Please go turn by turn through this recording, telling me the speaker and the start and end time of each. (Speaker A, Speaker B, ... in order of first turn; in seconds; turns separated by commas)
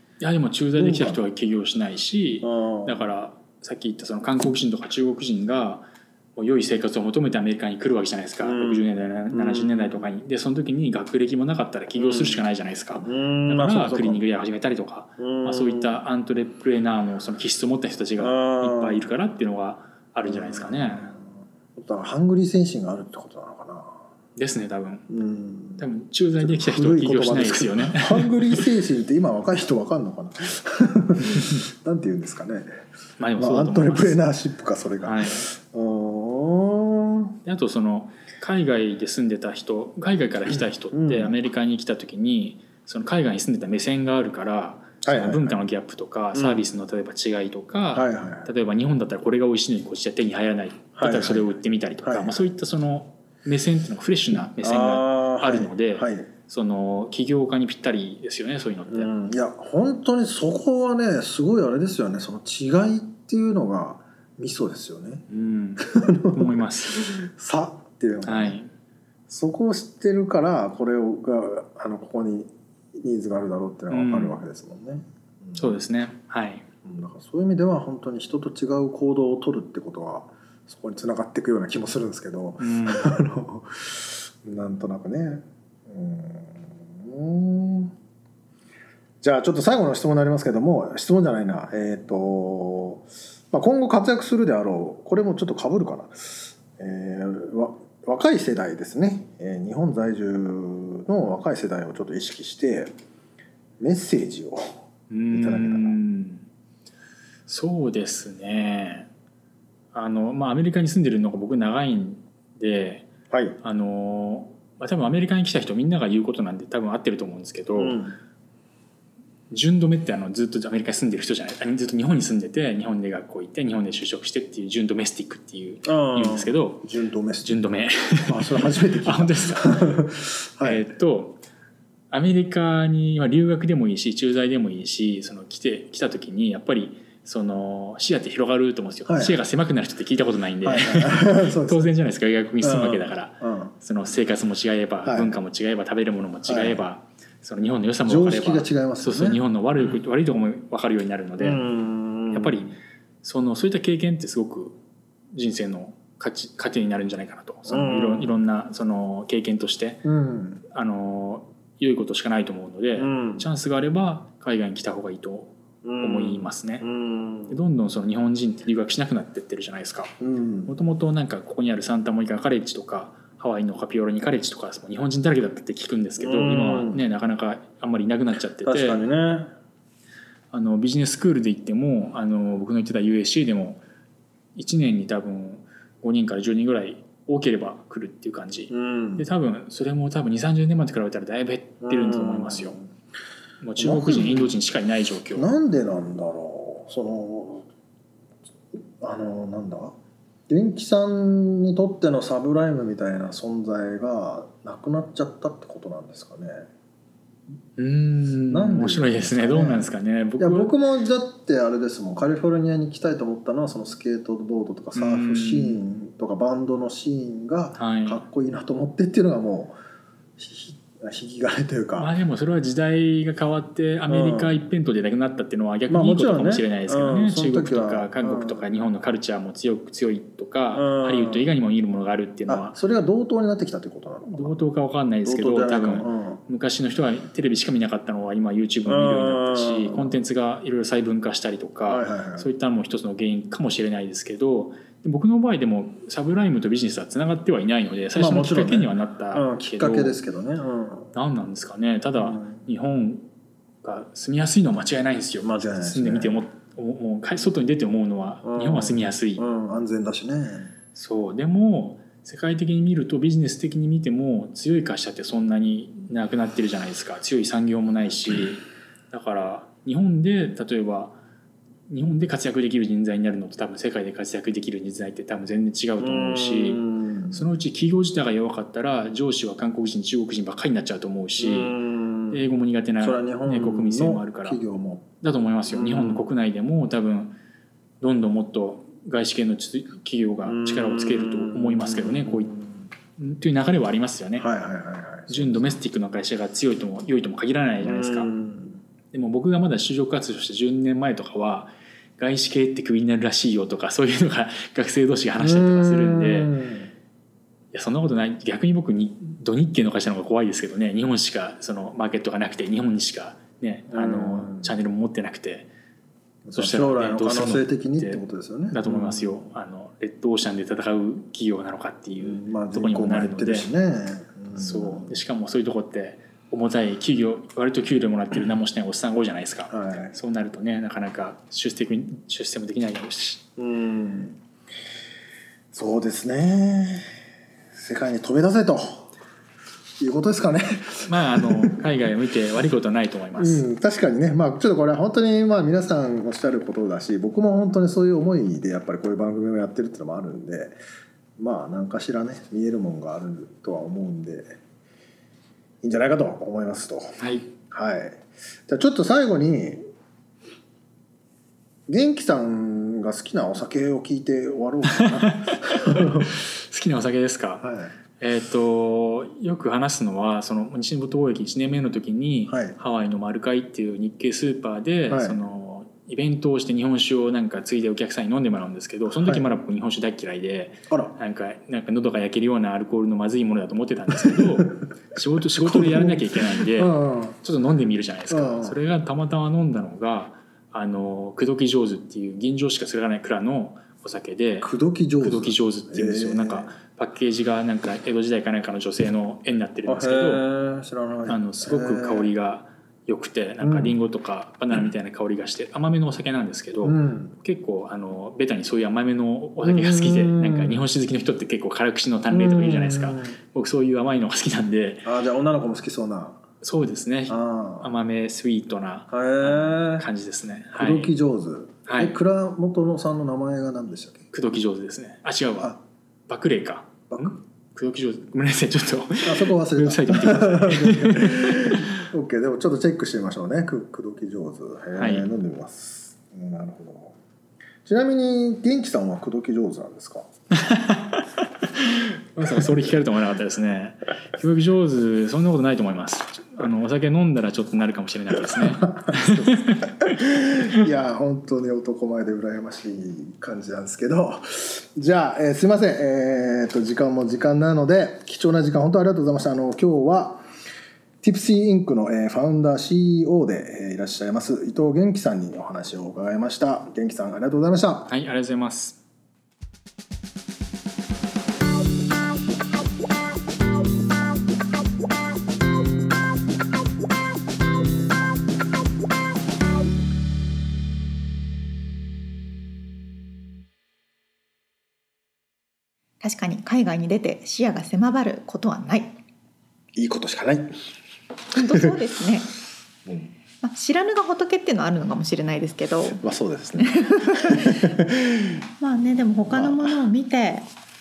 Speaker A: 0.2-21.1, Speaker B: 0.8-1.2, Speaker B: 2.4-3.1, Speaker B: 8.4-10.1, Speaker B: 12.0-12.4, Speaker B: 13.0-14.2, Speaker B: 15.2-16.0, Speaker B: 18.2-19.1, Speaker B: 20.2-21.2, Speaker B: 21.8-24.0, Speaker A: 24.4-25.1, Speaker B: 25.1-25.9, Speaker A: 25.8-28.7, Speaker B: 26.4-32.7, Speaker A: 33.2-34.2, Speaker B: 33.4-37.4, Speaker A: 35.0-35.5, Speaker A: 37.5-59.1, Speaker B: 40.5-41.4, Speaker B: 45.0-45.6, Speaker B: 46.3-46.6, Speaker B: 47.9-48.5, Speaker B: 51.0-52.4, Speaker B: 54.6-56.3, Speaker B: 58.9-65.2, Speaker A: 65.3-67.1, Speaker B: 65.8-68.6, Speaker A: 68.2-68.7, Speaker B: 69.3-75.8, Speaker A: 73.9-74.4, Speaker A: 75.5-76.7, Speaker B: 76.8-87.9, Speaker A: 82.6-83.2, Speaker B: 89.2-102.9, Speaker B: 103.8-104.8, Speaker A: 105.1-106.4, Speaker B: 105.3-106.0, Speaker A: 107.5-109.1, Speaker A: 109.9-113.1, Speaker B: 113.3-113.6, Speaker A: 113.6-118.0, Speaker B: 117.8-118.2, Speaker A: 119.5-126.9, Speaker B: 125.8-127.6, Speaker A: 127.4-129.9, Speaker B: 128.3-130.8, Speaker A: 130.6-131.4, Speaker A: 132.1-151.7, Speaker B: 139.1-139.4, Speaker B: 140.6-141.9, Speaker B: 142.6-143.7, Speaker B: 145.1-145.4, Speaker B: 146.5-146.8, Speaker B: 148.1-149.4, Speaker B: 151.4-152.7, Speaker A: 152.3-154.8, Speaker A: 155.3-160.1, Speaker B: 157.7-158.3, Speaker B: 160.1-160.6, Speaker A: 160.7-166.9, Speaker B: 162.9-163.4, Speaker B: 165.8-167.6, Speaker A: 167.5-170.1, Speaker B: 170.2-170.7, Speaker A: 170.7-179.1, Speaker B: 176.2-177.0, Speaker B: 178.6-179.5, Speaker A: 180.5-183.8, Speaker A: 184.6-192.8, Speaker B: 188.7-189.3, Speaker B: 191.8-192.8, Speaker A: 193.6-195.5, Speaker B: 193.8-194.5, Speaker B: 195.3-197.7, Speaker B: 198.7-199.9, Speaker B: 200.5-206.7, Speaker A: 207.8-210.7, Speaker B: 208.5-209.9, Speaker B: 210.4-219.7, Speaker A: 214.9-215.8, Speaker A: 217.8-218.2, Speaker B: 220.4-222.1, Speaker A: 222.0-232.8, Speaker B: 224.1-224.5, Speaker B: 225.9-228.7, Speaker B: 230.7-231.5, Speaker B: 232.5-234.6, Speaker A: 234.3-250.2, Speaker B: 235.2-236.4, Speaker B: 238.8-240.2, Speaker B: 241.9-242.5, Speaker B: 248.1-251.1, Speaker A: 251.1-253.2, Speaker B: 252.2-252.6, Speaker A: 253.8-259.4, Speaker B: 255.4-256.4, Speaker B: 258.4-260.7, Speaker A: 260.9-271.2, Speaker A: 271.9-281.8, Speaker B: 276.0-277.5, Speaker B: 281.4-282.4, Speaker A: 282.3-284.6, Speaker B: 283.0-285.1, Speaker A: 285.2-287.4, Speaker B: 285.7-286.3, Speaker A: 288.0-292.5, Speaker B: 290.4-292.9, Speaker A: 293.2-294.5, Speaker B: 294.4-295.8, Speaker A: 295.3-298.3, Speaker B: 297.8-298.8, Speaker A: 299.1-306.5, Speaker B: 305.4-306.9, Speaker A: 307.7-315.7, Speaker B: 313.9-314.7, Speaker B: 316.4-319.4, Speaker A: 316.6-323.7, Speaker B: 322.2-325.1, Speaker A: 324.5-333.4, Speaker B: 329.7-330.1, Speaker B: 333.6-334.4, Speaker B: 335.7-337.1, Speaker B: 337.7-339.1, Speaker B: 340.0-341.9, Speaker A: 341.1-343.6, Speaker B: 343.4-350.7, Speaker B: 351.4-354.6, Speaker B: 355.8-359.8, Speaker A: 357.2-357.5, Speaker B: 361.9-366.4, Speaker A: 364.9-367.7, Speaker B: 367.6-367.9, Speaker A: 368.2-394.7, Speaker B: 372.5-372.8, Speaker B: 375.1-375.4, Speaker B: 379.1-379.4, Speaker B: 380.9-381.2, Speaker B: 384.2-384.7, Speaker B: 385.6-387.4, Speaker B: 388.3-388.8, Speaker B: 394.6-396.7, Speaker A: 395.2-400.4, Speaker B: 399.9-402.3, Speaker A: 401.2-415.1, Speaker B: 403.6-404.0, Speaker B: 406.8-407.4, Speaker B: 409.6-410.9, Speaker B: 412.3-413.4, Speaker B: 415.1-416.4, Speaker A: 416.6-421.1, Speaker B: 417.3-417.9, Speaker B: 419.1-420.1, Speaker B: 420.7-424.3, Speaker A: 421.9-422.1, Speaker A: 424.3-425.8, Speaker A: 426.3-431.9, Speaker B: 427.1-427.4, Speaker B: 429.2-437.2, Speaker A: 434.9-435.3, Speaker B: 437.9-440.3, Speaker A: 440.5-441.3, Speaker A: 441.8-450.0, Speaker B: 448.5-460.4, Speaker B: 461.2-468.1, Speaker A: 468.1-469.0, Speaker C: 486.2-489.1, Speaker B: 489.9-490.7, Speaker C: 491.5-492.5, Speaker B: 491.6-491.9, Speaker B: 493.1-493.3, Speaker C: 493.6-496.2, Speaker B: 496.2-498.6, Speaker C: 496.8-498.0, Speaker C: 498.8-500.7, Speaker B: 499.4-500.0